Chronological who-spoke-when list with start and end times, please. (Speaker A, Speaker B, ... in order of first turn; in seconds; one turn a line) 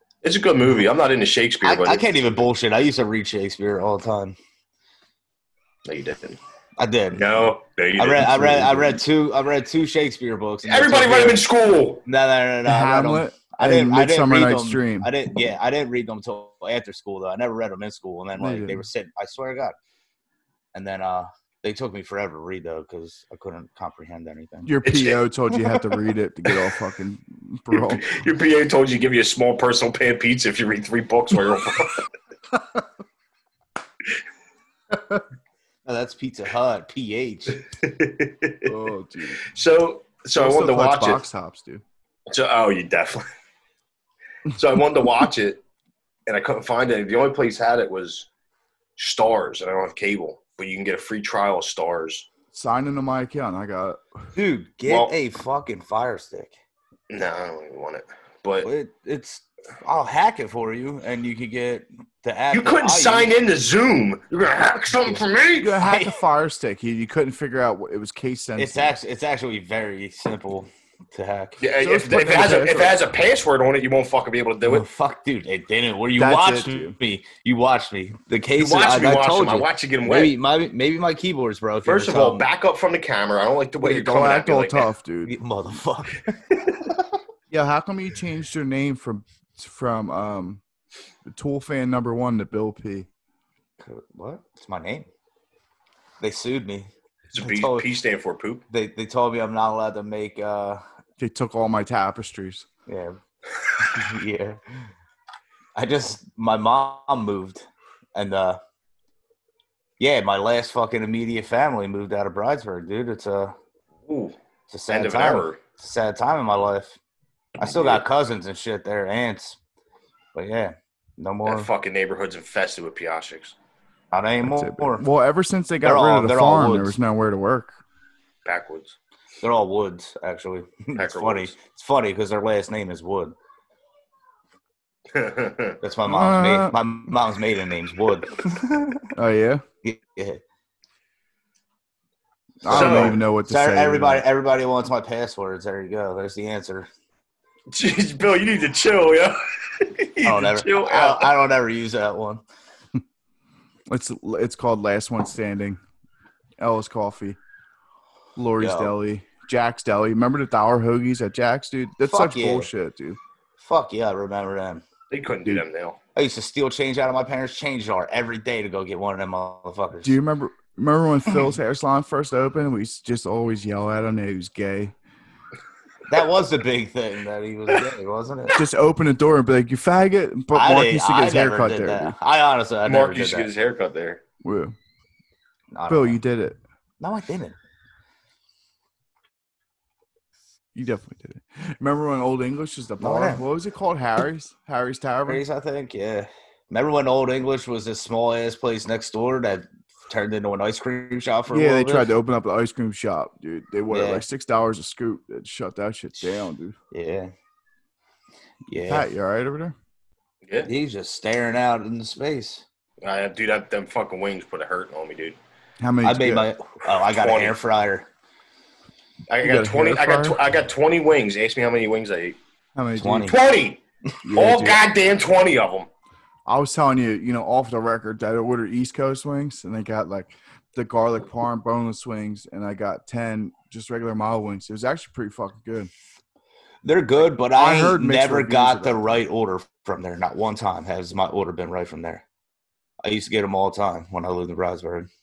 Speaker A: 0.2-2.2
Speaker B: 1.6-4.4
Speaker A: 5.8-6.4
Speaker B: 6.8-7.2
Speaker A: 7.1-9.0
Speaker B: 8.0-11.4
Speaker A: 10.6-12.0
Speaker B: 12.0-19.8
Speaker C: 12.6-15.1
Speaker C: 18.4-18.8
Speaker B: 20.7-24.7
Speaker C: 24.6-28.1
Speaker A: 24.9-25.2
Speaker A: 27.8-32.0
Speaker C: 34.9-35.2
Speaker B: 35.9-37.6
Speaker A: 37.8-38.7
Speaker C: 38.6-39.5
Speaker A: 39.4-41.2
Speaker C: 40.4-41.8
Speaker A: 42.3-43.2
Speaker A: 44.5-45.6
Speaker A: 46.3-48.3
Speaker A: 49.0-52.3
Speaker C: 52.5-54.0
Speaker B: 54.4-56.5
Speaker A: 54.9-55.1
Speaker A: 57.1-58.7
Speaker B: 58.6-63.3
Speaker A: 62.5-65.8
Speaker C: 65.6-69.0
Speaker B: 65.8-66.2
Speaker B: 68.6-71.6
Speaker A: 71.6-74.9
Speaker C: 71.8-73.0
Speaker B: 74.7-82.4
Speaker C: 76.2-77.0
Speaker A: 78.6-80.3
Speaker A: 81.8-84.9
Speaker C: 83.8-85.3
Speaker B: 85.2-86.7
Speaker C: 87.5-90.6
Speaker C: 91.2-93.1
Speaker B: 93.8-95.1
Speaker B: 96.2-97.9
Speaker A: 97.3-98.6
Speaker B: 98.7-100.8
Speaker C: 101.2-102.7
Speaker B: 102.9-103.2
Speaker B: 103.8-104.9
Speaker B: 105.8-108.6
Speaker B: 110.0-113.5
Speaker A: 114.1-114.4
Speaker B: 114.7-117.0
Speaker A: 114.9-115.6
Speaker A: 117.6-118.0
Speaker B: 117.6-119.6
Speaker B: 120.3-121.7
Speaker A: 121.5-123.5
Speaker B: 124.1-125.1
Speaker C: 124.4-127.8
Speaker B: 125.8-126.9
Speaker A: 128.4-128.9
Speaker B: 129.4-133.3
Speaker A: 130.9-131.5
Speaker A: 135.1-135.8
Speaker B: 135.8-139.1
Speaker C: 136.1-137.2
Speaker C: 139.1-139.6
Speaker B: 139.8-140.4
Speaker C: 142.6-144.2
Speaker B: 142.7-146.9
Speaker A: 142.7-143.2
Speaker A: 147.7-151.3
Speaker B: 150.2-152.4
Speaker C: 153.9-155.8
Speaker C: 156.6-157.4
Speaker C: 158.4-163.2
Speaker B: 158.6-158.9
Speaker B: 162.0-162.7
Speaker B: 163.6-164.8
Speaker A: 165.1-166.0
Speaker B: 166.2-170.2
Speaker C: 170.0-174.9
Speaker B: 176.1-178.6
Speaker C: 178.5-182.1
Speaker B: 180.5-183.5
Speaker A: 182.9-184.2
Speaker C: 184.4-184.8
Speaker B: 185.7-186.2
Speaker C: 185.9-186.6
Speaker B: 187.0-187.6
Speaker C: 190.7-195.4
Speaker B: 193.0-193.4
Speaker B: 195.3-202.1
Speaker C: 201.5-206.8
Speaker B: 203.9-204.2
Speaker B: 206.9-207.3
Speaker B: 208.7-209.1
Speaker C: 208.9-209.8
Speaker B: 210.6-212.6
Speaker A: 213.0-215.4
Speaker C: 215.8-216.5
Speaker B: 216.0-218.1
Speaker A: 217.0-217.6
Speaker A: 219.3-222.4
Speaker C: 219.4-220.4
Speaker C: 222.8-223.4
Speaker B: 222.9-223.4
Speaker A: 223.3-223.8
Speaker C: 224.2-224.8
Speaker A: 224.3-225.9
Speaker C: 226.4-235.9
Speaker B: 236.8-242.2
Speaker C: 237.2-239.0
Speaker B: 243.0-245.1